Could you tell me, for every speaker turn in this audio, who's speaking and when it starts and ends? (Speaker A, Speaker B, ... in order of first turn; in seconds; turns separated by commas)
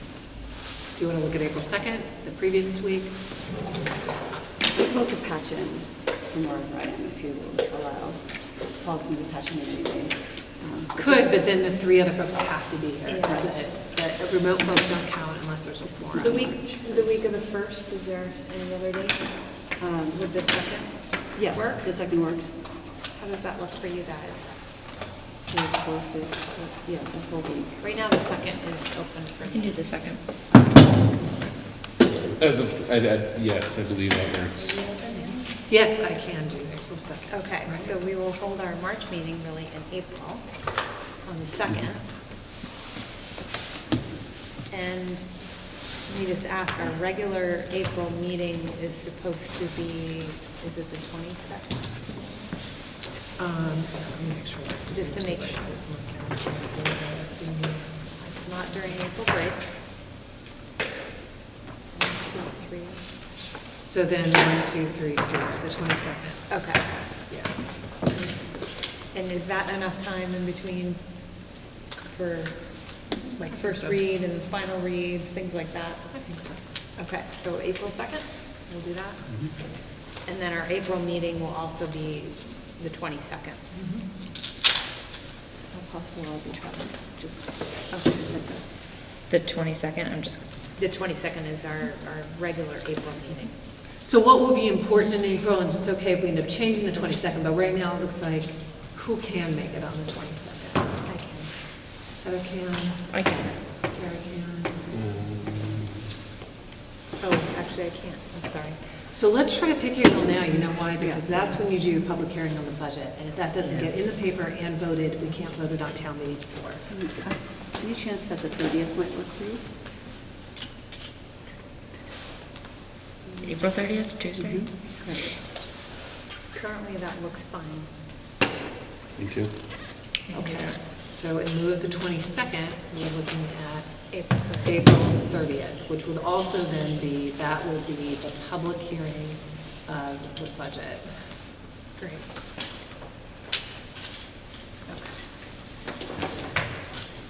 Speaker A: 0.9-3.4, Speaker B: 4.8-11.3, Speaker A: 11.0-16.4, Speaker C: 13.1-13.4, Speaker B: 13.3-13.7, Speaker B: 15.9-17.3, Speaker C: 16.2-21.8, Speaker B: 19.8-20.3, Speaker B: 21.3-22.8, Speaker C: 23.1-24.6, Speaker B: 25.5-27.8, Speaker C: 27.8-29.9, Speaker D: 29.5-30.2, Speaker E: 32.4-34.8, Speaker A: 35.7-37.9, Speaker C: 37.3-42.0, Speaker C: 44.7-51.8, Speaker A: 53.4-58.1, Speaker C: 54.9-55.7, Speaker C: 58.2-59.9, Speaker C: 61.9-63.1, Speaker A: 63.8-67.8, Speaker C: 66.5-67.1, Speaker C: 69.1-71.5, Speaker C: 72.0-76.1, Speaker A: 73.4-74.0, Speaker A: 76.1-76.6, Speaker C: 77.0-83.6, Speaker A: 83.7-84.1, Speaker B: 85.5-88.7, Speaker D: 89.3-90.5, Speaker C: 90.8-93.6, Speaker A: 93.8-101.0, Speaker C: 101.0-101.5, Speaker A: 102.2-104.9, Speaker D: 103.1-103.5, Speaker E: 105.0-105.6, Speaker C: 107.2-108.8, Speaker A: 109.1-116.9, Speaker B: 116.9-119.7, Speaker D: 123.4-124.7, Speaker B: 124.3-125.3, Speaker C: 126.5-127.9, Speaker E: 129.2-129.5, Speaker D: 130.3-130.8, Speaker A: 130.3-141.2, Speaker C: 134.1-134.7, Speaker C: 142.0-142.3, Speaker C: 144.9-145.2